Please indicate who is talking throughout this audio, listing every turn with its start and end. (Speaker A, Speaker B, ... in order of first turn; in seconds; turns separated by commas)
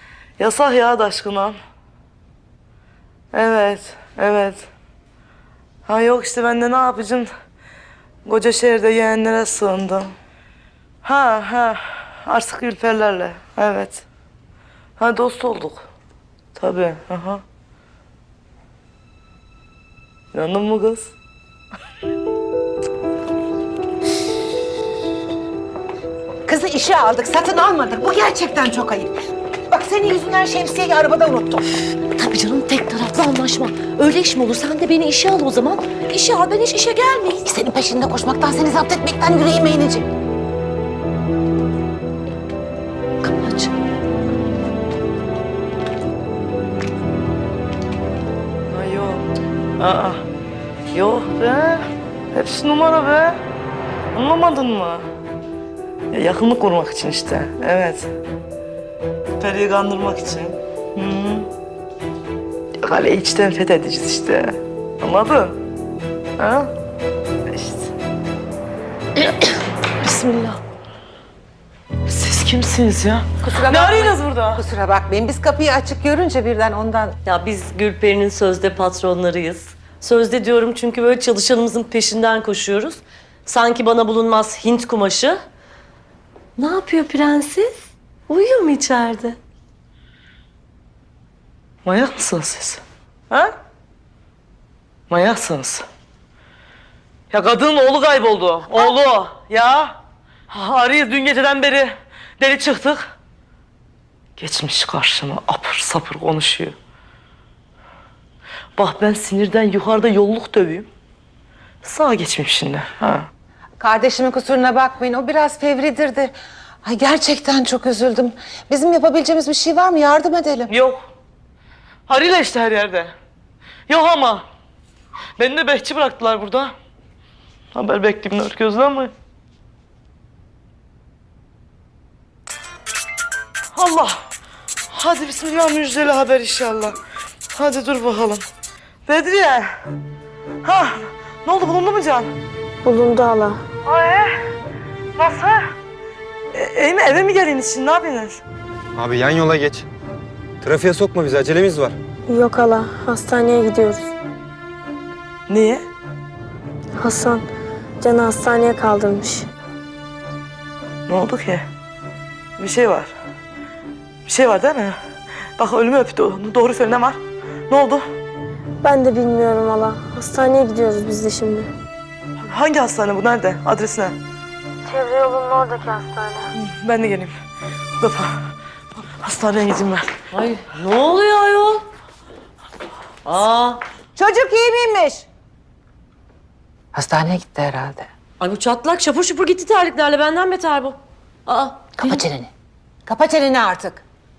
Speaker A: 0.4-1.6, Speaker A: 3.3-4.7, Speaker A: 5.8-7.3, Speaker A: 8.2-10.1, Speaker A: 11.0-14.0, Speaker A: 15.0-15.9, Speaker A: 16.6-17.4, Speaker A: 20.3-21.1, Speaker B: 26.4-29.1, Speaker B: 29.7-31.8, Speaker C: 32.1-37.4, Speaker B: 37.4-40.1, Speaker C: 43.2-43.7, Speaker A: 48.7-50.2, Speaker A: 50.9-53.4, Speaker A: 54.1-55.1, Speaker A: 56.1-58.1, Speaker A: 59.4-61.5, Speaker A: 62.8-65.6, Speaker A: 66.4-66.7, Speaker A: 67.5-67.9, Speaker A: 69.2-70.6, Speaker A: 72.1-74.6, Speaker B: 73.4-77.2, Speaker C: 77.2-85.4, Speaker C: 86.6-87.7, Speaker C: 88.3-89.4, Speaker A: 91.8-93.5, Speaker A: 95.1-95.8, Speaker A: 97.3-100.0, Speaker A: 100.5-103.1, Speaker A: 104.4-106.7, Speaker A: 108.8-110.9, Speaker A: 111.8-113.3, Speaker B: 113.8-120.7, Speaker A: 120.7-121.1, Speaker A: 122.1-123.1, Speaker A: 123.9-124.5, Speaker A: 125.4-126.7, Speaker A: 127.7-129.1, Speaker A: 133.7-134.2, Speaker A: 134.9-137.0, Speaker A: 137.5-138.4, Speaker A: 139.1-139.7, Speaker A: 140.6-142.3, Speaker D: 142.8-143.6, Speaker A: 143.8-144.4, Speaker A: 145.2-145.7, Speaker A: 146.5-148.4, Speaker E: 148.9-149.9, Speaker E: 150.6-152.0, Speaker D: 152.3-154.1, Speaker A: 155.5-155.8, Speaker D: 157.0-157.5, Speaker D: 158.0-159.5, Speaker A: 161.1-161.7, Speaker A: 162.6-163.1, Speaker A: 164.2-165.0, Speaker A: 165.6-168.1, Speaker D: 168.8-171.7, Speaker A: 172.4-174.2, Speaker D: 174.8-176.5, Speaker A: 176.5-177.3, Speaker A: 178.0-178.5, Speaker A: 179.2-180.1, Speaker C: 180.3-181.8, Speaker C: 183.2-183.8, Speaker B: 184.2-185.2, Speaker B: 186.9-188.1, Speaker C: 188.4-192.2, Speaker B: 192.0-192.5, Speaker B: 193.1-194.0